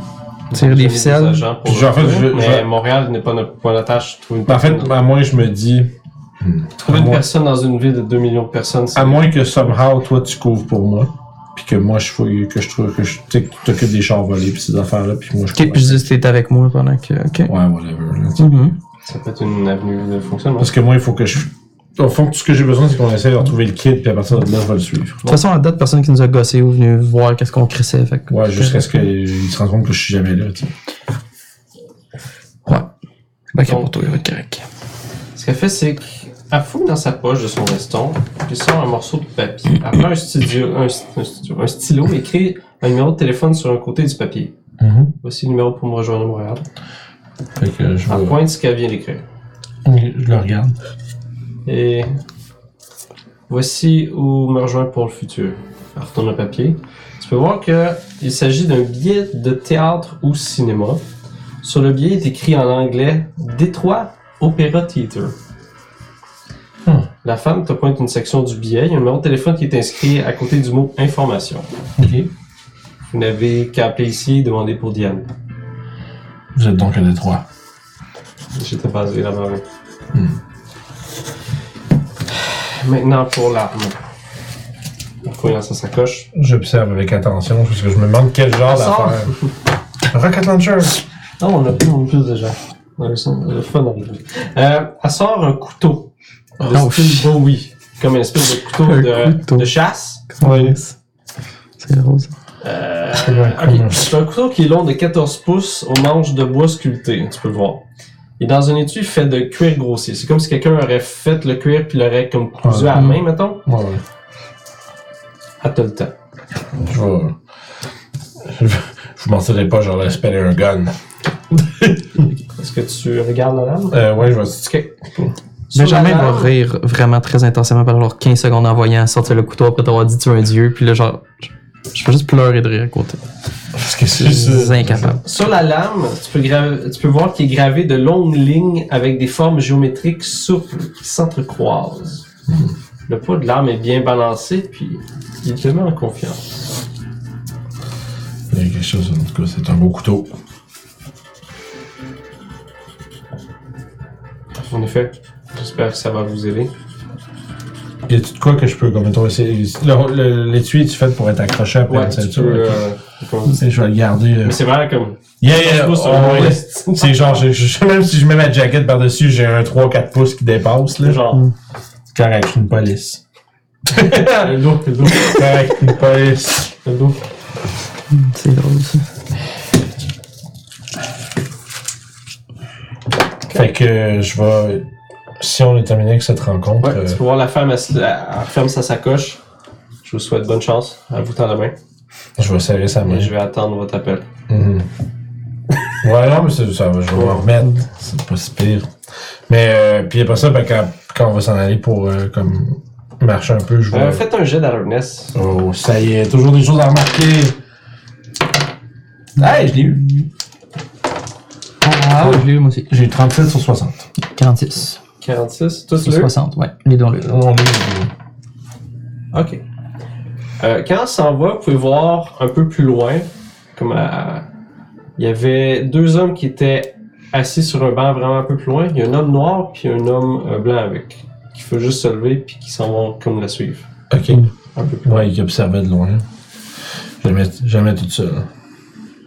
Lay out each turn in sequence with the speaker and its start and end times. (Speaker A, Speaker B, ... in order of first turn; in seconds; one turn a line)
Speaker A: 0.5-4.9
Speaker B: 0.5-1.4
Speaker C: 1.6-2.7
Speaker C: 4.5-7.2
Speaker A: 6.8-9.2
Speaker C: 8.9-16.1
Speaker B: 15.6-17.5
Speaker C: 17.5-18.7
Speaker B: 18.4-18.7
Speaker A: 19.0-20.7
Speaker C: 20.6-25.2
Speaker B: 25.2-28.9
Speaker C: 28.3-30.7
Speaker B: 33.5-34.6
Speaker A: 33.6-34.1
Speaker A: 35.3-44.5
Speaker C: 44.8-45.1
Speaker A: 45.2-46.6
Speaker C: 47.6-48.4
Speaker A: 48.1-49.2
Speaker C: 49.8-50.8
Speaker A: 51.6-52.1
Speaker A: 53.5-61.0
Speaker A: 61.6-65.3
Speaker A: 67.2-72.3
Speaker A: 73.1-75.3
Speaker C: 76.5-77.4
Speaker A: 78.5-79.6
Speaker C: 80.1-80.4
Speaker A: 82.7-84.0
Speaker A: 85.2-86.3
Speaker C: 86.3-89.3
Speaker A: 88.7-89.5
Speaker C: 90.1-91.0
Speaker A: 91.4-96.1
Speaker A: 96.6-100.3
Speaker B: 96.7-97.3
Speaker B: 98.8-99.7
Speaker B: 100.3-100.9
Speaker C: 100.4-100.8
Speaker B: 101.8-102.3
Speaker A: 102.6-107.8
Speaker C: 103.2-104.1
Speaker A: 108.4-113.6
Speaker C: 112.6-114.0
Speaker A: 115.6-116.1
Speaker C: 116.8-117.3
Speaker C: 118.4-120.9
Speaker C: 121.5-122.3
Speaker A: 122.6-124.9
Speaker C: 123.9-125.3
Speaker A: 125.7-126.5
Speaker B: 125.7-133.2
Speaker C: 133.7-135.2
Speaker B: 134.1-135.2
Speaker A: 135.2-142.2
Speaker C: 142.5-142.7
Speaker A: 143.1-146.6
Speaker C: 148.5-150.3
Speaker A: 154.7-156.7
Speaker C: 158.1-162.8
Speaker A: 161.9-163.6
Speaker C: 163.5-164.6
Speaker A: 164.4-167.4
Speaker C: 165.4-171.2
Speaker A: 171.0-171.4
Speaker C: 172.1-173.2
Speaker C: 173.9-174.5
Speaker A: 174.3-175.5
Speaker C: 175.1-176.7
Speaker A: 176.8-177.2
Speaker B: 178.1-179.0
Speaker C: 183.5-184.8
Speaker C: 185.4-187.2
Speaker A: 186.8-189.4
Speaker A: 190.0-191.8
Speaker C: 192.4-193.3
Speaker A: 193.0-194.2
Speaker C: 194.5-194.9
Speaker C: 196.0-198.9
Speaker A: 197.1-197.5
Speaker C: 199.5-204.2
Speaker A: 203.9-205.3
Speaker C: 205.3-207.6
Speaker C: 209.4-210.0
Speaker B: 209.7-210.0
Speaker B: 211.8-212.9
Speaker C: 212.2-214.1
Speaker B: 214.3-215.0
Speaker A: 215.2-216.3
Speaker B: 216.0-217.3
Speaker C: 217.2-218.1
Speaker A: 219.3-219.6
Speaker A: 220.6-224.4
Speaker A: 225.2-233.9
Speaker C: 234.1-234.4
Speaker A: 234.7-235.3
Speaker C: 235.0-236.2
Speaker C: 237.2-238.4